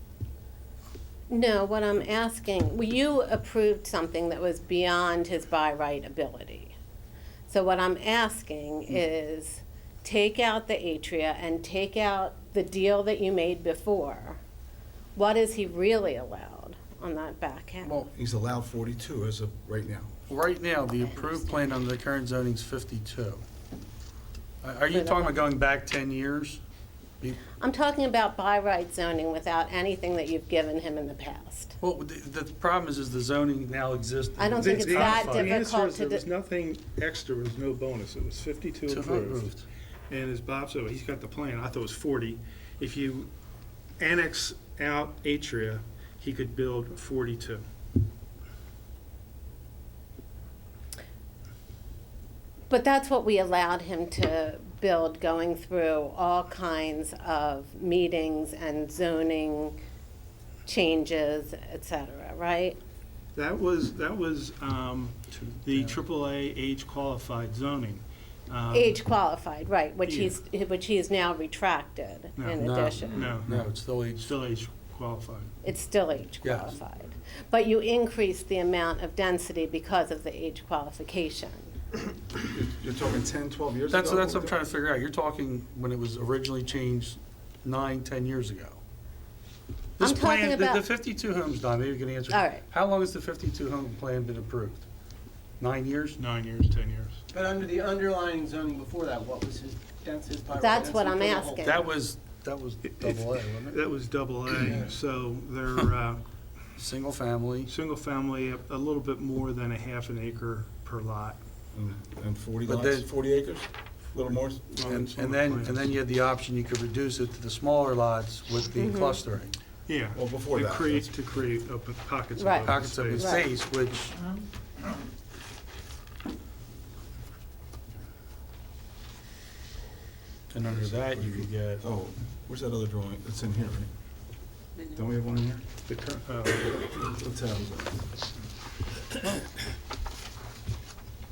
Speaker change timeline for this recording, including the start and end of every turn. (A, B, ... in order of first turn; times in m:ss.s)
0:01.3-0:06.7 A
0:07.5-0:14.4 A
0:15.1-0:18.1 A
0:17.8-0:18.1 B
0:18.1-0:20.1 C
0:20.3-0:23.4 B
0:21.1-0:21.4 A
0:24.6-0:26.6 B
0:24.9-0:25.4 A
0:27.6-0:31.8 A
0:31.8-0:35.6 B
0:34.4-0:36.2 A
0:34.6-0:39.5 D
0:38.9-0:39.6 B
0:40.1-0:43.3 D
0:44.0-0:47.6 D
0:52.7-0:59.8 A
1:00.6-1:02.8 A
1:03.3-1:09.0 D
1:05.3-1:06.0 B
1:08.7-1:13.3 A
1:10.0-1:10.3 D
1:12.4-1:15.5 D
1:12.6-1:14.3 B
1:15.6-1:21.7 A
1:16.4-1:16.8 B
1:22.5-1:24.6 C
1:23.9-1:28.8 B
1:30.0-1:34.8 B
1:30.0-1:30.8 A
1:32.3-1:32.6 A
1:35.6-1:36.2 B
1:36.2-1:37.2 D
1:37.3-1:41.6 E
1:40.6-1:41.9 A
1:41.6-1:43.7 B
1:42.9-1:46.2 D
1:44.6-1:44.9 E
1:46.8-1:47.7 B
1:47.6-1:51.4 D
1:51.7-1:54.6 C
1:52.6-1:53.1 B
1:54.5-1:55.8 D
1:54.7-1:59.5 B
1:58.8-1:59.2 A
1:59.9-2:03.4 D
2:00.1-2:01.0 C
2:02.4-2:03.4 A
2:02.6-2:04.2 B
2:10.5-2:11.8 B
2:10.7-2:13.9 C
2:15.0-2:15.6 C
2:15.8-2:16.8 D
2:16.8-2:18.0 C